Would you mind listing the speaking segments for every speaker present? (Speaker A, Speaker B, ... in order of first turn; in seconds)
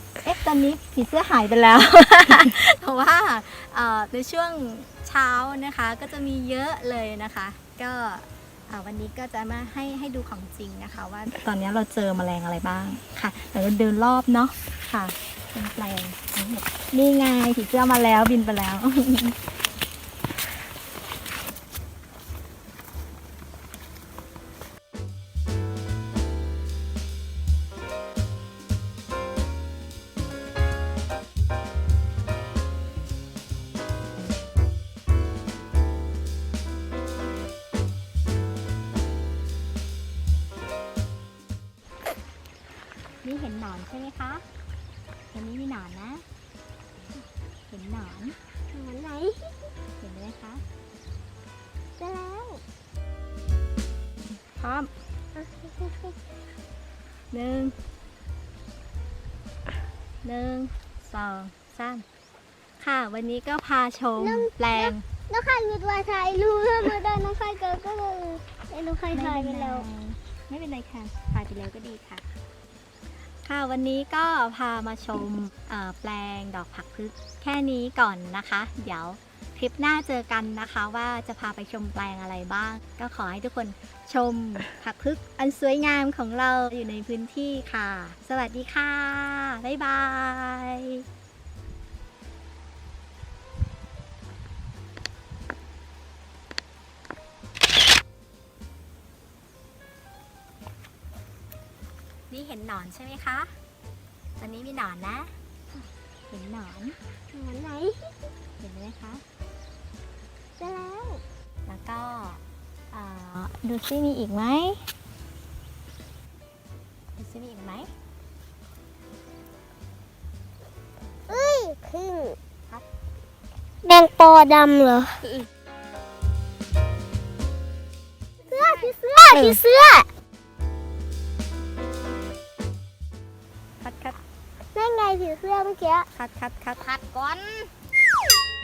Speaker A: 0.2-19.4, 43.2-44.5, 45.3-46.2, 47.7-48.4, 50.0-50.6, 54.4-54.9, 57.3-57.8, 60.2-62.0, 62.8-65.0, 69.1-72.3, 73.5-91.0, 102.3-103.5, 104.4-105.3, 106.3-107.0, 108.6-109.2, 111.7-114.9, 117.2-117.9, 128.4-129.6, 133.8-134.2, 136.1-137.7
Speaker B: 48.7-49.5, 52.0-52.6, 55.4-56.2, 64.2-69.9, 107.3-108.1, 110.6-111.2, 121.3-122.4, 123.8-125.3, 128.4-130.1, 134.7-136.1